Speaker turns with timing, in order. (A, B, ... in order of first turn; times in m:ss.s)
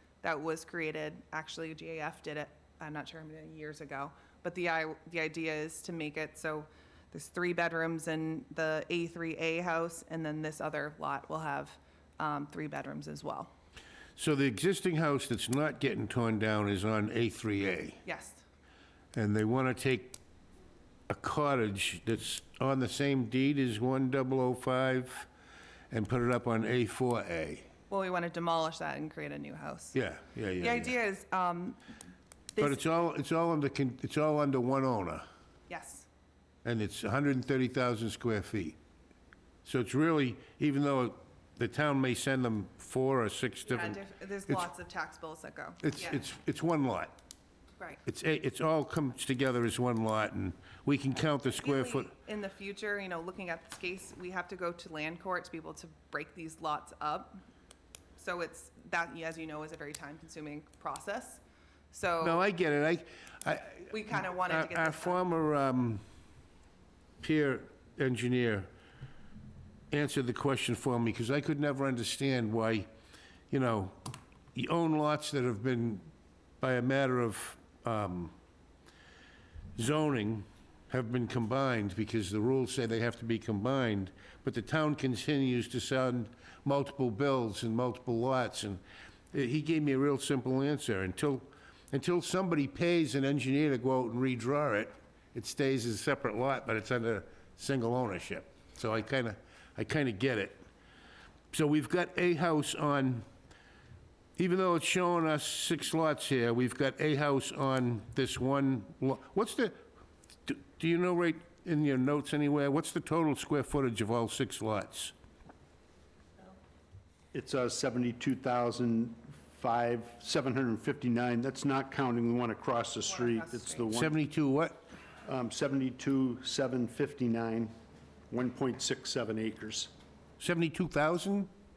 0:00.2-0:13.5 A
0:14.2-0:18.0 B
0:18.0-0:18.4 A
0:19.1-0:20.2 B
0:21.1-0:25.3 B
0:25.9-0:27.6 B
0:27.9-0:30.0 A
0:29.9-0:30.9 B
0:30.6-0:31.8 A
0:32.5-0:32.8 A
0:32.6-0:35.2 B
0:35.7-0:36.1 A
0:36.6-0:38.8 B
0:39.6-0:44.7 B
0:43.6-0:46.2 A
0:45.8-0:47.1 B
0:48.0-0:52.1 B
0:51.5-0:57.4 A
0:58.2-1:02.4 A
1:02.2-1:06.0 B
1:03.9-1:05.2 A
1:07.2-1:08.7 B
1:09.9-1:12.9 B
1:13.5-1:14.0 B
1:14.5-1:16.1 B
1:16.6-1:18.3 B
1:19.8-1:28.8 B
1:29.3-1:40.6 B
1:41.5-1:43.2 B
1:44.4-1:49.8 B
1:50.4-1:55.1 B
1:57.3-2:04.1 C
2:03.0-2:04.0 A
2:03.9-2:04.8 B
2:05.2-2:07.7 C
2:08.3-2:09.9 C
2:10.4-2:11.5 B